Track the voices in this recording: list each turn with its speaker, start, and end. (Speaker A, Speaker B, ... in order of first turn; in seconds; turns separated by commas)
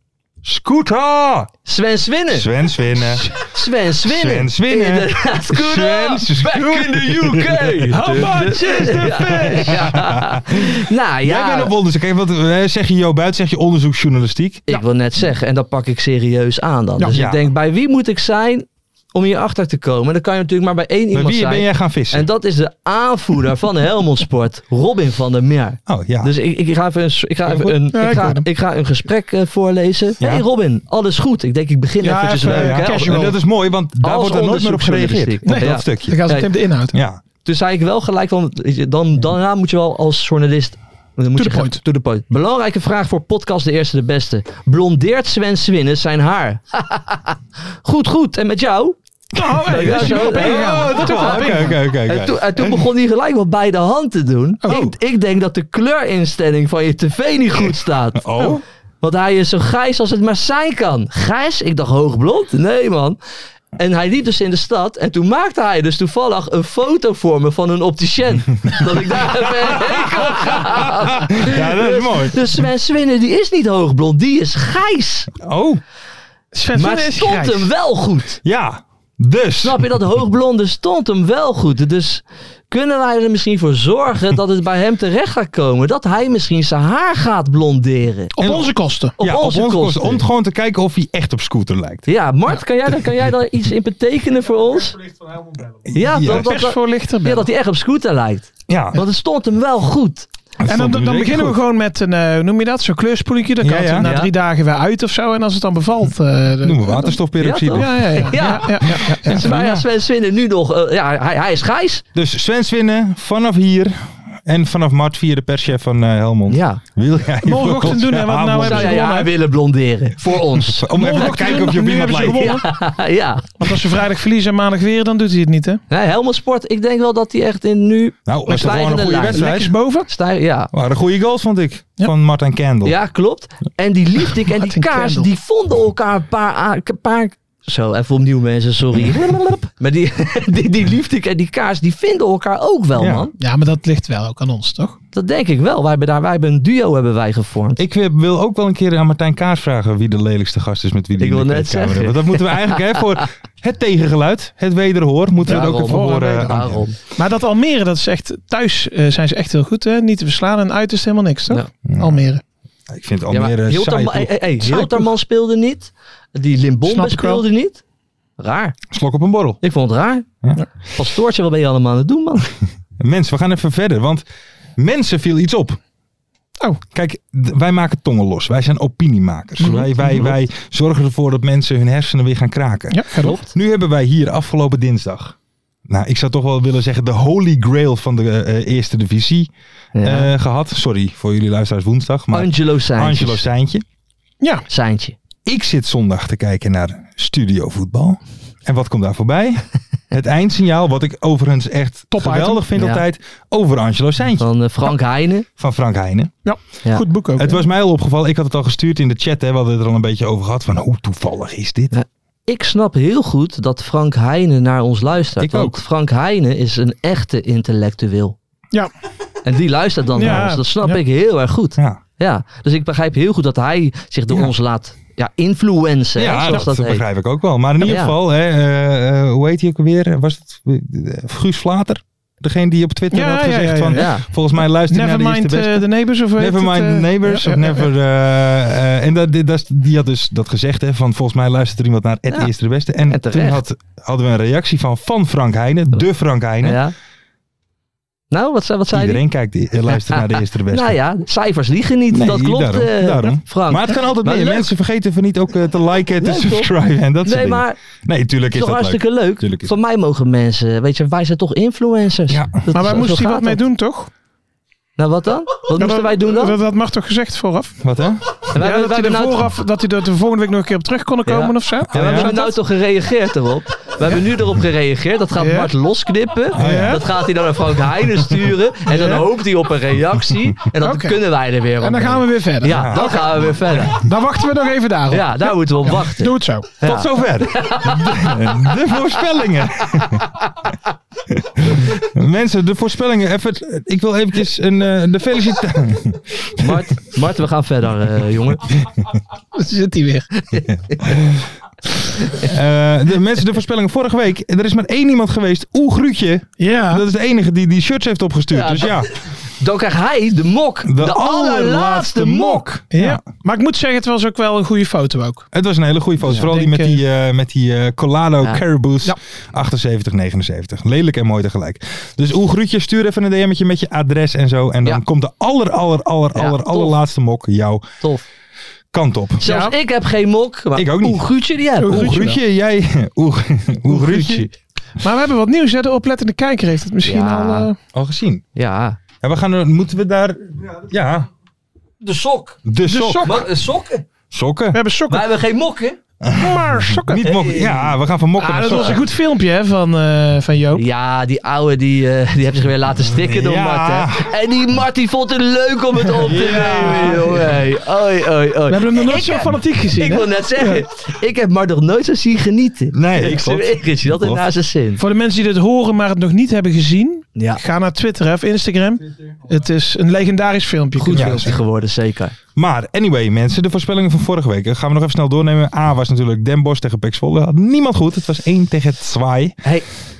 Speaker A: 0.4-1.5, Speaker B: 1.7-2.5, Speaker A: 2.3-3.3, Speaker B: 3.4-11.7, Speaker A: 4.0-14.7, Speaker C: 7.9-10.0, Speaker B: 14.7-33.3, Speaker A: 17.1-17.4, Speaker A: 21.1-22.3, Speaker A: 25.9-26.3, Speaker A: 27.5-27.7, Speaker C: 27.9-28.5, Speaker C: 32.0-33.4, Speaker A: 32.4-36.3, Speaker B: 34.0-36.5, Speaker C: 35.5-37.0, Speaker A: 36.9-37.2, Speaker B: 37.4-49.0, Speaker C: 41.4-41.8, Speaker C: 49.3-51.8, Speaker A: 49.5-52.9, Speaker B: 49.6-58.3, Speaker C: 54.6-54.9, Speaker A: 58.1-58.6, Speaker B: 59.0-63.2, Speaker B: 63.8-75.3, Speaker A: 68.8-72.5, Speaker A: 75.4-75.8, Speaker C: 76.5-77.7, Speaker B: 76.7-78.4, Speaker A: 78.4-79.9, Speaker B: 79.6-88.3, Speaker C: 88.3-89.2, Speaker A: 88.4-92.1, Speaker B: 89.2-90.2, Speaker B: 92.1-95.0, Speaker A: 92.9-93.2, Speaker A: 95.8-96.5, Speaker B: 95.9-100.3, Speaker C: 96.2-97.5, Speaker A: 98.7-99.0, Speaker A: 100.6-101.6, Speaker C: 100.7-107.2, Speaker A: 103.6-104.1, Speaker B: 104.0-104.3, Speaker A: 106.6-109.8, Speaker B: 107.4-112.0, Speaker C: 107.7-109.5, Speaker A: 112.2-119.1, Speaker B: 116.5-116.8, Speaker C: 117.4-119.3, Speaker B: 118.6-120.9, Speaker A: 120.5-122.6, Speaker C: 120.9-122.7, Speaker B: 122.2-123.5, Speaker C: 123.6-125.8, Speaker B: 125.9-129.5, Speaker A: 128.3-129.7, Speaker C: 129.3-130.1, Speaker B: 130.1-130.7, Speaker A: 130.7-133.0, Speaker B: 132.8-143.3, Speaker C: 134.6-135.3, Speaker A: 143.0-143.3, Speaker C: 143.4-145.0, Speaker B: 145.1-147.8, Speaker A: 147.8-156.9, Speaker B: 151.2-153.0, Speaker C: 155.4-156.6, Speaker B: 155.4-157.0, Speaker C: 157.2-162.4, Speaker A: 161.9-162.2, Speaker A: 162.9-164.7, Speaker B: 163.3-167.8, Speaker C: 164.7-165.0, Speaker C: 166.9-167.4, Speaker B: 168.4-168.8, Speaker A: 168.9-169.6, Speaker B: 169.6-170.3, Speaker B: 170.9-172.5, Speaker A: 173.0-174.2, Speaker A: 174.8-175.8, Speaker A: 176.9-185.3, Speaker C: 179.6-180.3, Speaker C: 182.9-183.4, Speaker B: 183.2-183.5, Speaker A: 185.9-193.8, Speaker B: 189.9-190.3, Speaker B: 192.3-193.4, Speaker C: 194.4-194.7, Speaker B: 194.7-195.2, Speaker A: 195.4-204.5, Speaker C: 202.1-202.6, Speaker B: 202.8-203.0, Speaker B: 204.4-205.5, Speaker A: 205.6-206.3, Speaker C: 206.4-207.6, Speaker A: 207.4-211.9, Speaker B: 211.9-218.4, Speaker A: 215.4-215.8, Speaker B: 219.4-227.0, Speaker C: 220.1-221.0, Speaker A: 226.2-246.8, Speaker B: 227.8-228.2, Speaker C: 233.1-234.1, Speaker B: 233.9-234.2, Speaker C: 234.9-237.9, Speaker B: 243.1-243.6, Speaker B: 246.6-246.9, Speaker B: 248.3-249.2, Speaker A: 248.9-251.0, Speaker B: 249.9-254.7, Speaker A: 252.1-259.8, Speaker B: 256.2-256.7, Speaker B: 257.2-257.8, Speaker B: 258.5-263.6, Speaker A: 262.3-262.6, Speaker C: 262.7-264.1, Speaker B: 265.0-266.6, Speaker C: 265.8-267.8, Speaker A: 267.8-268.4, Speaker B: 268.5-269.5, Speaker C: 268.6-272.6, Speaker B: 271.3-284.0, Speaker A: 271.9-272.3, Speaker C: 275.4-275.7, Speaker A: 276.5-277.1, Speaker C: 276.6-277.1, Speaker C: 278.9-279.3, Speaker C: 280.8-281.2, Speaker C: 281.8-283.2, Speaker A: 282.7-283.9, Speaker C: 283.9-286.7, Speaker B: 285.1-288.7, Speaker A: 286.8-290.4, Speaker A: 291.3-296.9, Speaker B: 296.6-298.7, Speaker C: 299.6-300.3, Speaker B: 300.4-301.0, Speaker A: 300.7-301.4, Speaker A: 302.3-309.1, Speaker C: 306.6-307.1, Speaker B: 308.5-312.7, Speaker A: 310.9-313.3, Speaker C: 312.9-315.5, Speaker A: 315.5-327.9, Speaker C: 316.3-317.0, Speaker B: 326.4-327.0, Speaker A: 328.9-329.4, Speaker B: 329.4-332.0, Speaker C: 329.4-329.8, Speaker A: 330.8-331.3, Speaker C: 331.8-332.4, Speaker A: 331.8-334.5, Speaker B: 333.9-334.5, Speaker C: 335.0-337.8, Speaker B: 337.0-337.7, Speaker A: 337.9-338.4, Speaker B: 338.6-339.0, Speaker A: 339.2-341.3, Speaker B: 342.0-342.6, Speaker A: 342.6-343.5, Speaker C: 342.9-343.4, Speaker B: 343.2-344.1, Speaker A: 344.3-344.8, Speaker C: 344.7-345.2, Speaker B: 345.1-346.0, Speaker A: 346.2-349.0, Speaker C: 346.3-347.3, Speaker B: 347.2-347.9, Speaker C: 348.4-350.9, Speaker B: 348.6-349.0, Speaker B: 350.7-365.0, Speaker A: 353.0-354.4, Speaker A: 356.2-357.5, Speaker C: 356.2-357.5, Speaker C: 358.7-360.9, Speaker A: 362.9-364.4, Speaker C: 365.0-371.6, Speaker B: 367.4-367.6, Speaker B: 371.0-372.4, Speaker A: 371.1-371.5, Speaker A: 372.6-379.6